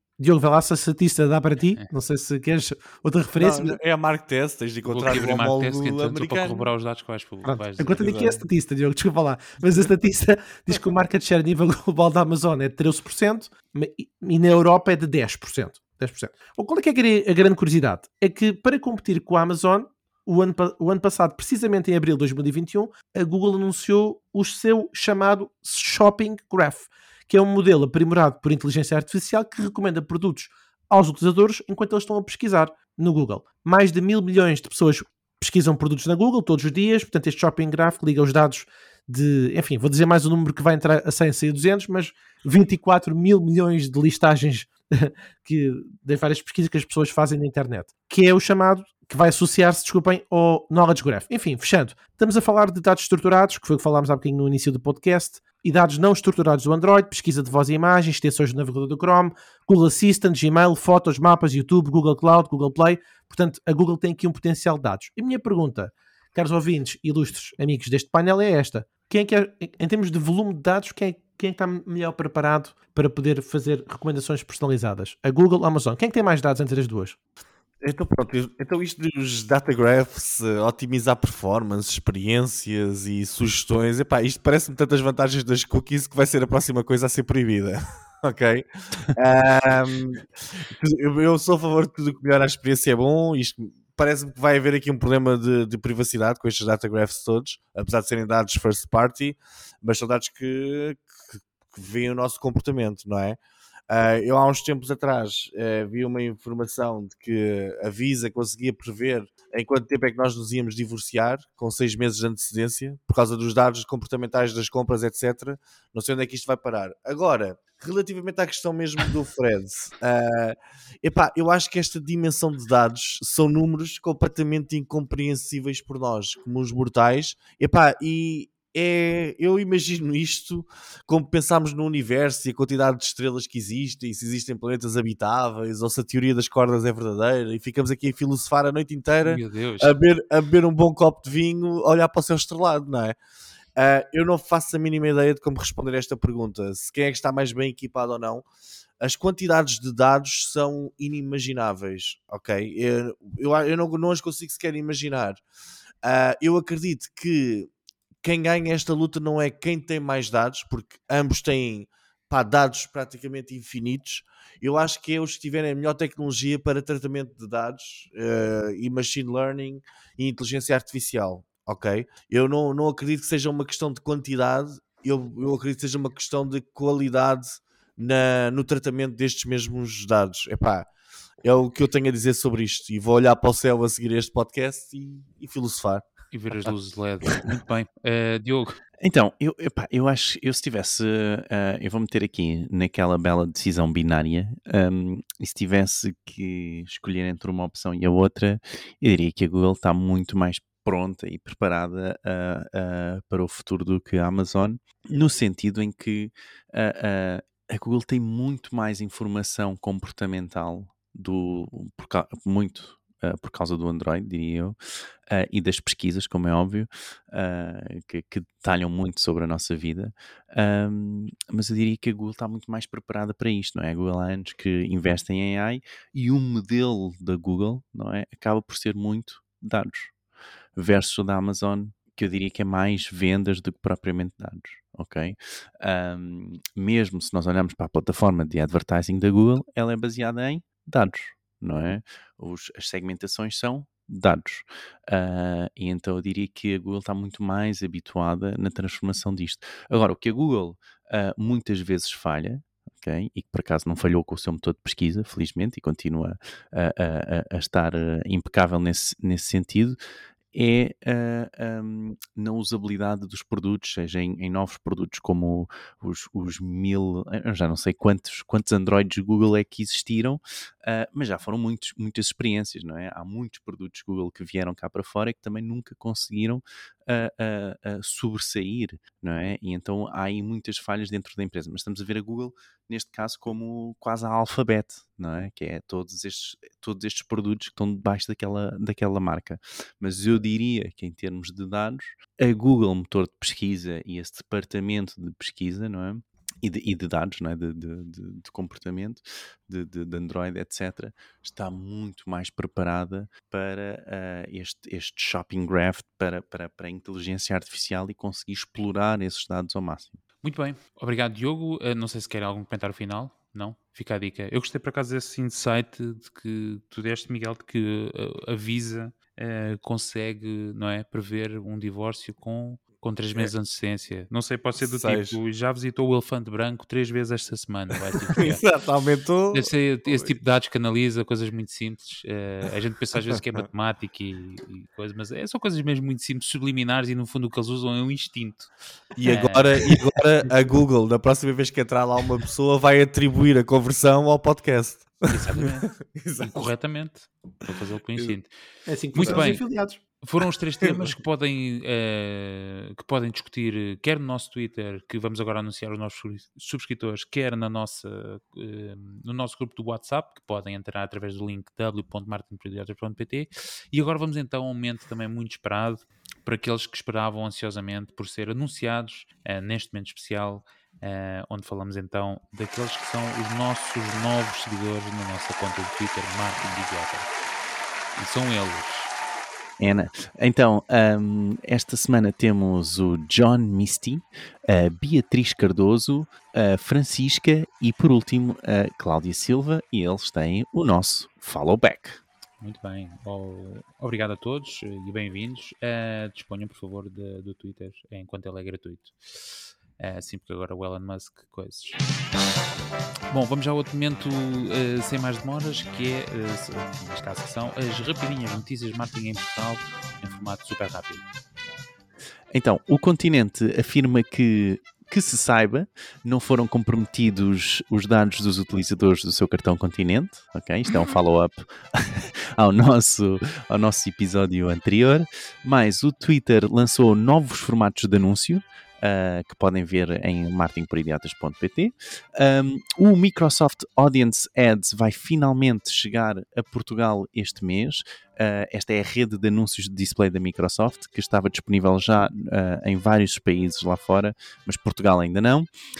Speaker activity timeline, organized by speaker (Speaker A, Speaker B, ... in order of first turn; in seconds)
Speaker A: 0.2-3.8, 7.4-77.2, 348.9-350.0
Speaker B: 1.6-1.9, 4.9-8.1, 139.2-139.9, 186.3-188.8, 310.4-328.6, 329.5-338.7, 339.2-340.0, 345.3-348.5, 349.1-349.6, 350.2-377.3, 378.1-379.1, 392.6-402.0, 403.3-411.2
Speaker C: 3.4-6.7, 8.0-8.4, 77.8-103.4, 103.9-143.2, 143.8-148.4, 149.0-155.4, 156.0-157.7, 158.2-180.8, 181.4-186.1, 324.8-325.4, 328.3-330.4, 339.1-346.7, 349.2-349.6, 350.8-351.1
Speaker D: 189.0-214.8, 215.3-230.1, 230.8-260.0, 260.5-310.2, 379.8-392.2, 412.5-445.7